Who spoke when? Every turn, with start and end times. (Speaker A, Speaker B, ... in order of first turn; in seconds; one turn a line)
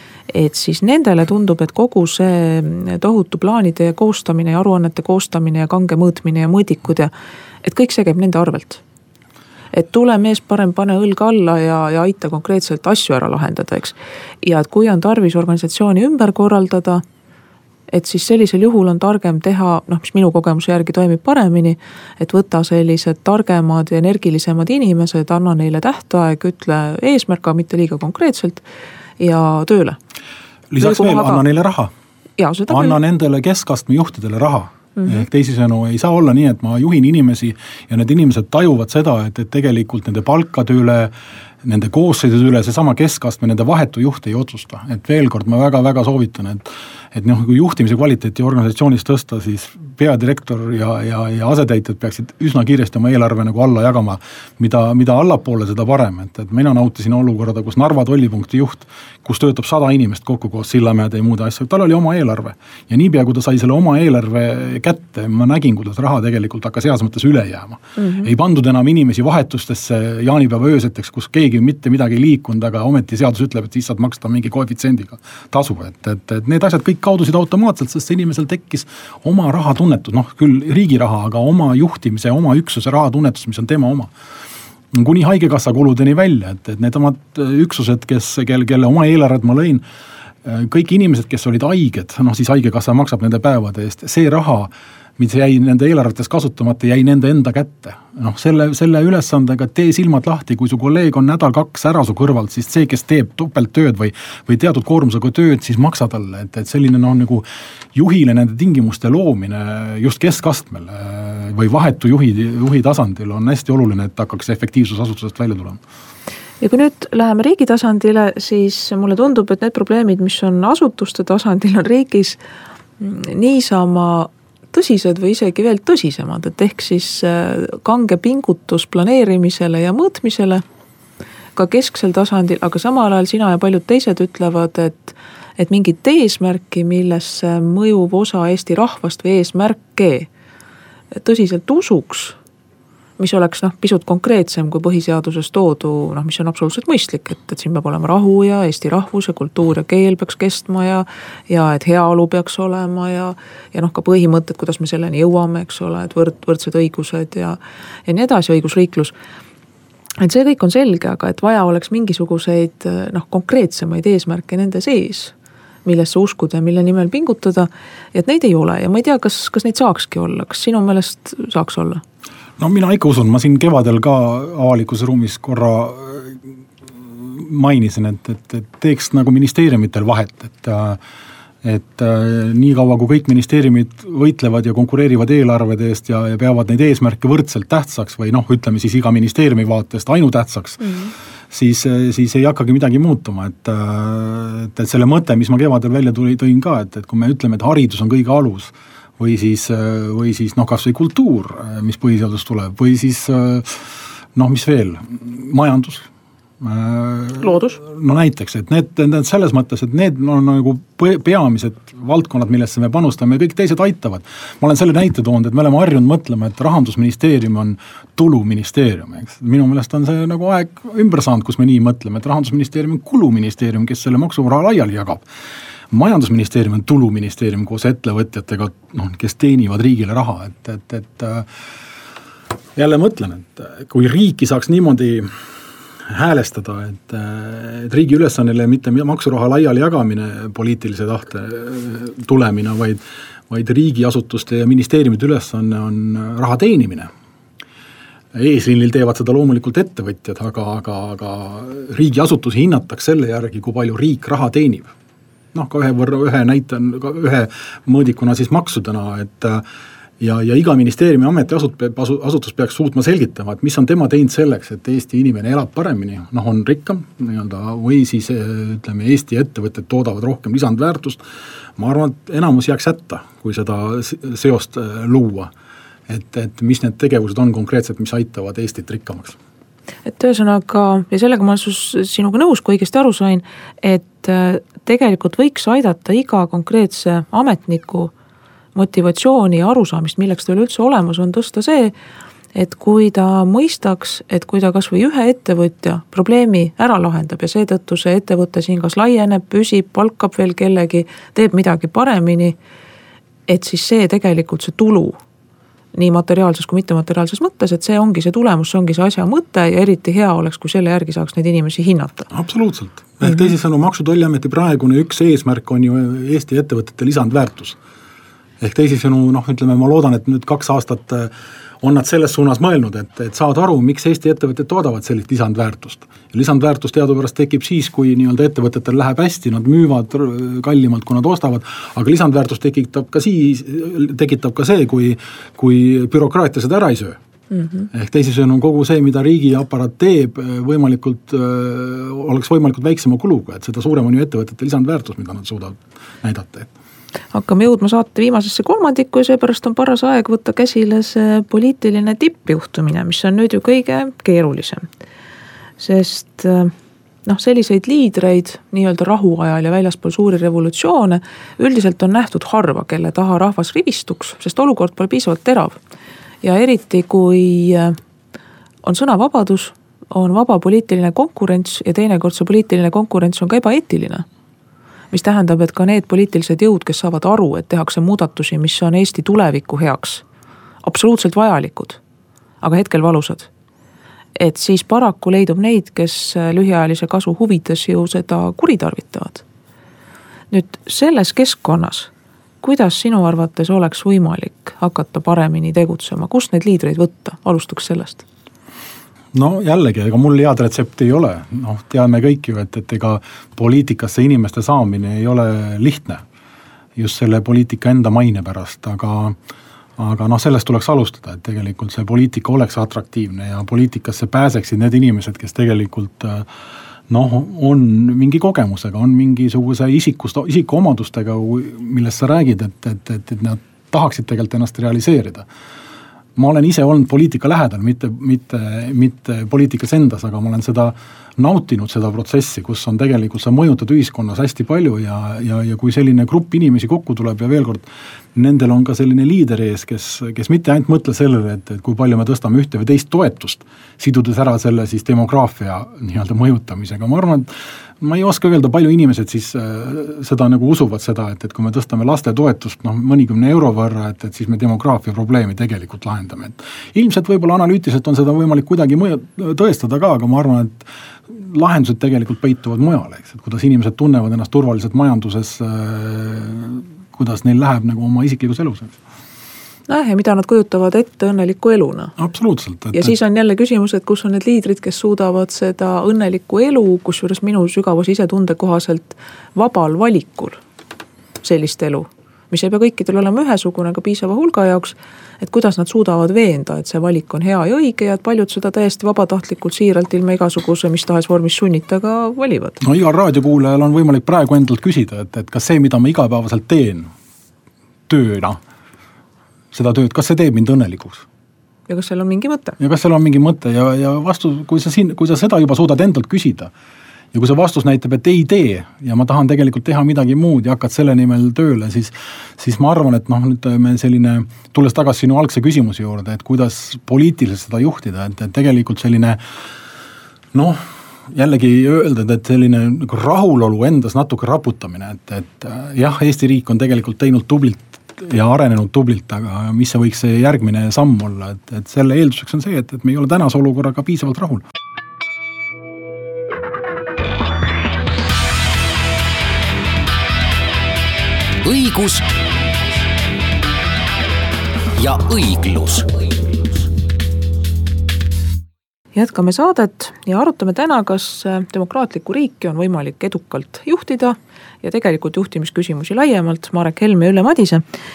Speaker A: 0.3-7.1
Speaker A: 7.6-8.8
Speaker A: 9.7-17.0
Speaker A: 17.9-28.6
Speaker A: 29.2-30.0
Speaker B: 30.7-31.9
Speaker A: 30.8-31.4
Speaker A: 32.4-33.0
Speaker B: 32.7-84.1
Speaker A: 68.0-68.3
Speaker B: 84.9-89.8
Speaker B: 90.4-115.8
Speaker A: 116.6-122.4
Speaker A: 123.0-130.6
Speaker A: 131.6-140.3
Speaker A: 141.2-142.4
Speaker A: 143.2-159.1
Speaker A: 160.2-165.3
Speaker A: 165.8-172.0
Speaker B: 172.6-176.4
Speaker B: 177.1-181.0
Speaker B: 181.6-190.9
Speaker A: 190.8-191.1
Speaker B: 191.5-203.8
Speaker B: 204.3-206.1
Speaker B: 206.6-225.2
Speaker A: 207.4-207.8
Speaker B: 225.9-231.5
Speaker B: 232.8-235.3
Speaker B: 236.1-247.1
Speaker B: 248.3-254.9
Speaker B: 255.5-259.6
Speaker B: 260.2-271.2
Speaker B: 271.8-275.5
Speaker B: 276.1-279.4
Speaker A: 280.1-288.1
Speaker A: 288.8-291.9
Speaker A: 292.6-302.6
Speaker A: 303.5-305.2
Speaker A: 305.9-312.3
Speaker B: 312.3-317.8
Speaker B: 318.6-337.2
Speaker A: 337.5-337.9
Speaker B: 337.9-346.7
Speaker A: 347.3-354.9
Speaker A: 355.8-356.7
Speaker A: 357.3-365.8
Speaker A: 366.4-368.0
Speaker A: 368.8-374.3
Speaker A: 375.1-380.2
Speaker A: 380.8-382.0
Speaker A: 382.6-383.5
Speaker A: 384.4-389.4
Speaker A: 390.5-392.1
Speaker A: 392.6-398.2
Speaker B: 399.3-406.2
Speaker B: 407.0-409.4
Speaker B: 410.0-416.5
Speaker B: 417.1-425.5
Speaker B: 426.4-469.0
Speaker A: 469.9-472.1
Speaker B: 472.2-473.1
Speaker A: 472.9-480.6
Speaker A: 481.4-492.8
Speaker B: 492.8-497.1
Speaker B: 498.1-498.6
Speaker B: 499.7-501.2
Speaker A: 501.9-502.8
Speaker B: 502.8-506.7
Speaker B: 507.3-519.4
Speaker B: 520.5-534.6
Speaker C: 541.6-543.8
Speaker C: 544.9-546.9
Speaker A: 549.1-557.8